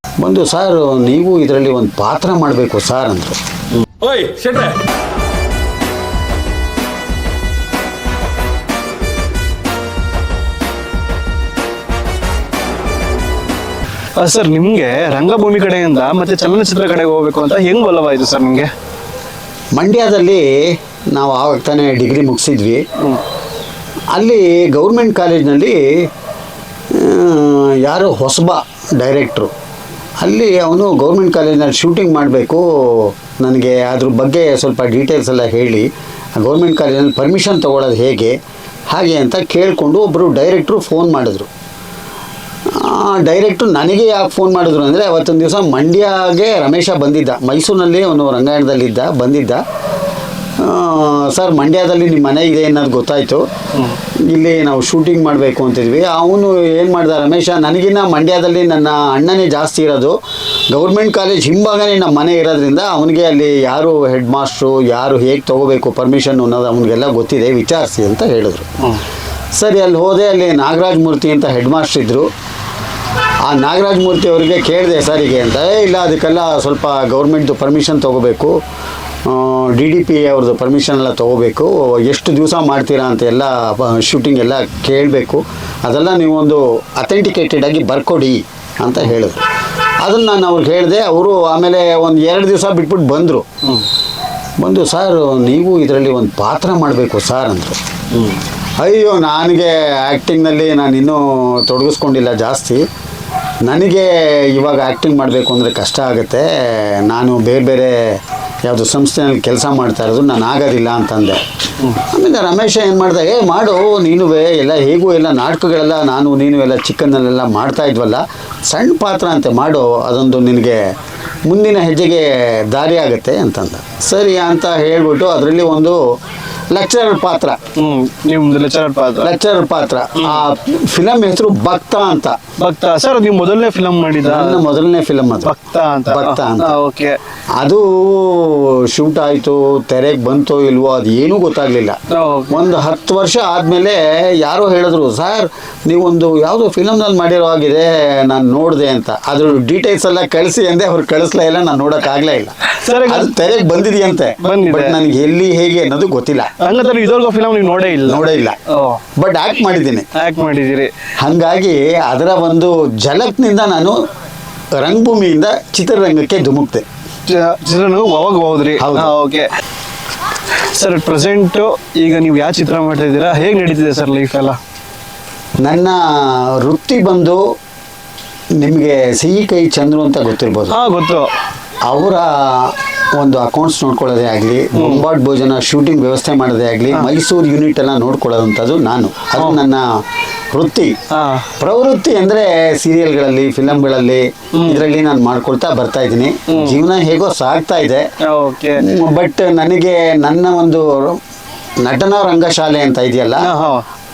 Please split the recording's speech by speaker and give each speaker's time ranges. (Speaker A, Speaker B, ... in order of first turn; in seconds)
Speaker A: 0.2-3.4, 19.8-22.8, 24.1-26.1, 26.9-29.5, 30.2-38.4, 38.9-41.5, 42.7-49.6, 50.6-53.4, 54.2-60.1, 60.7-68.7, 69.5-72.3, 73.4-78.5, 79.2-89.5, 90.0-93.5, 94.6-97.8, 98.8-102.8, 103.6-111.4, 112.0-120.9, 121.5-126.0, 126.7-127.6, 129.2-132.4, 134.3-135.5, 136.1-136.7, 137.6-142.0, 142.5-156.5, 158.1-158.6, 159.1-160.1, 161.2-164.0, 164.8-166.8, 168.8-169.1, 175.6-177.4, 178.6-180.8, 181.8-190.0, 190.5-190.9, 191.6-198.0, 198.8-201.2, 201.8-203.5
Speaker B: 4.0-4.7, 14.2-18.7, 23.0-23.2, 98.1-98.4, 127.7-129.3, 130.2-130.4, 132.6-134.6, 135.4-137.2, 142.1-142.6, 152.7-153.3, 154.4-155.0, 156.6-159.0, 160.1-160.9, 167.2-169.5, 170.6-174.6, 180.7-181.3, 184.7-185.1, 189.3-189.6, 191.1-191.5, 194.6-194.8, 196.5-196.8, 198.2-198.8, 203.4-203.8